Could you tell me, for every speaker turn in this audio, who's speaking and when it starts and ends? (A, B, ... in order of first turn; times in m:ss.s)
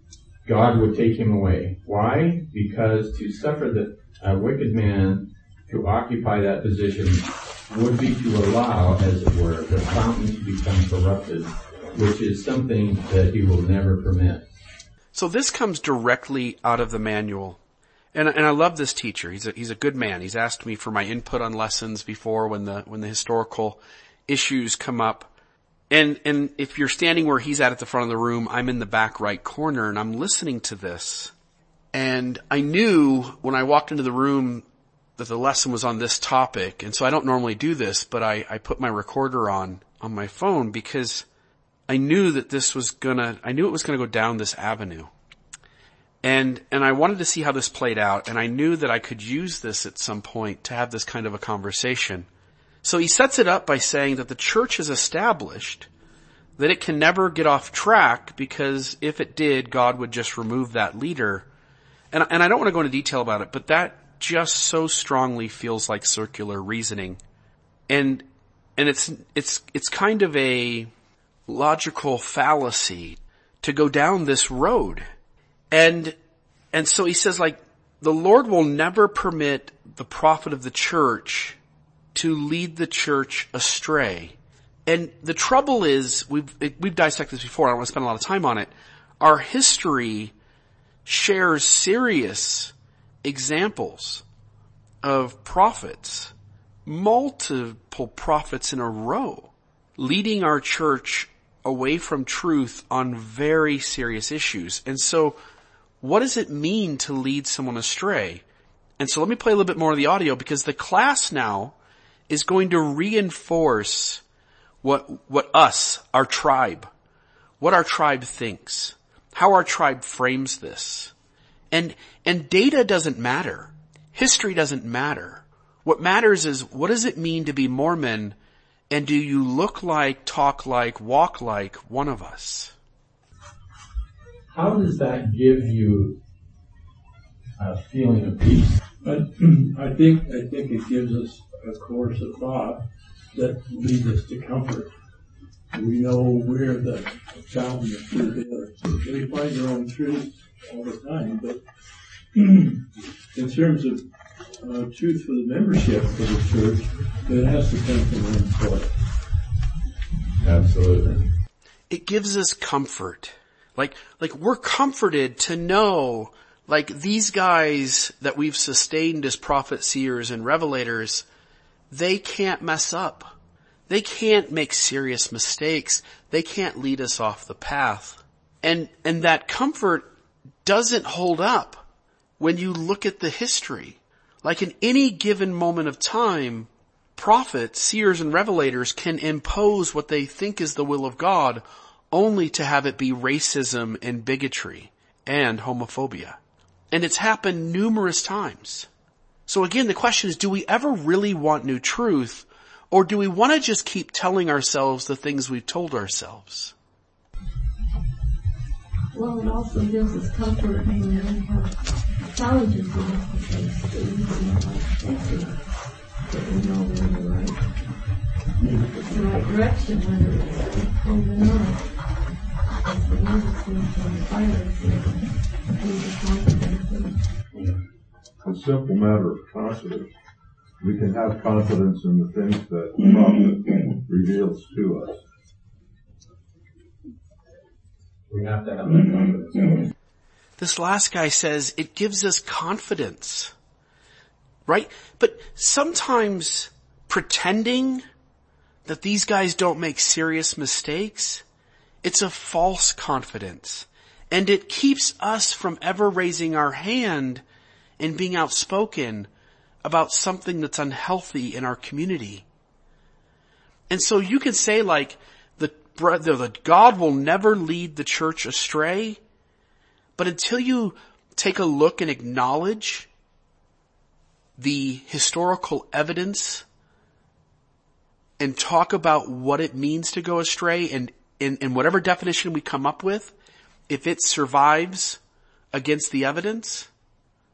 0:00.4-0:14.4 A
0:15.1-0:17.6 B
0:18.1-0:25.3 B
0:25.9-0:31.3 B
0:31.9-0:34.6 B
0:35.2-0:41.2 B
0:41.9-0:45.1 B
0:46.2-0:52.3 B
0:52.8-0:55.9 B
0:56.6-1:01.5 B
1:02.1-1:07.2 B
1:07.9-1:08.2 B
1:08.8-1:10.9 B
1:11.5-1:15.1 B
1:15.7-1:16.2 B
1:16.7-1:21.6 B
1:22.1-1:30.3 B
1:31.0-1:34.2 B
1:35.0-1:36.3 B
1:36.8-1:45.4 B
1:46.0-1:48.4 B
1:49.0-1:51.8 B
1:52.3-1:54.2 B
1:54.8-1:56.9 B
1:57.6-2:01.1 B
2:01.7-2:08.4 B
2:08.9-2:12.7 B
2:14.5-2:16.2 A
2:17.6-2:18.8 A
2:19.0-2:24.9 C
2:25.7-2:31.6 C
2:32.3-2:32.8 C
2:33.3-2:38.9 C
2:40.4-2:41.3 A
2:41.9-2:51.2 B
2:51.9-2:53.3 B
2:53.9-3:00.1 B
3:00.6-3:01.8 B
3:02.4-3:16.4 B
3:16.9-3:18.9 B
3:19.5-3:26.7 B
3:29.1-3:37.8 D
3:38.6-3:38.9 C
3:38.9-3:47.4 D
3:48.4-3:50.1 E
3:50.8-3:55.2 E
3:58.3-3:59.9 A
4:00.6-4:03.5 B
4:04.7-4:08.0 B
4:08.8-4:11.4 B
4:12.0-4:17.4 B
4:18.0-4:19.3 B
4:19.8-4:22.4 B
4:23.9-4:29.2 B
4:30.2-4:33.1 B
4:34.6-4:36.6 B
4:38.4-4:43.3 B
4:43.9-4:45.2 B
4:45.7-4:46.9 B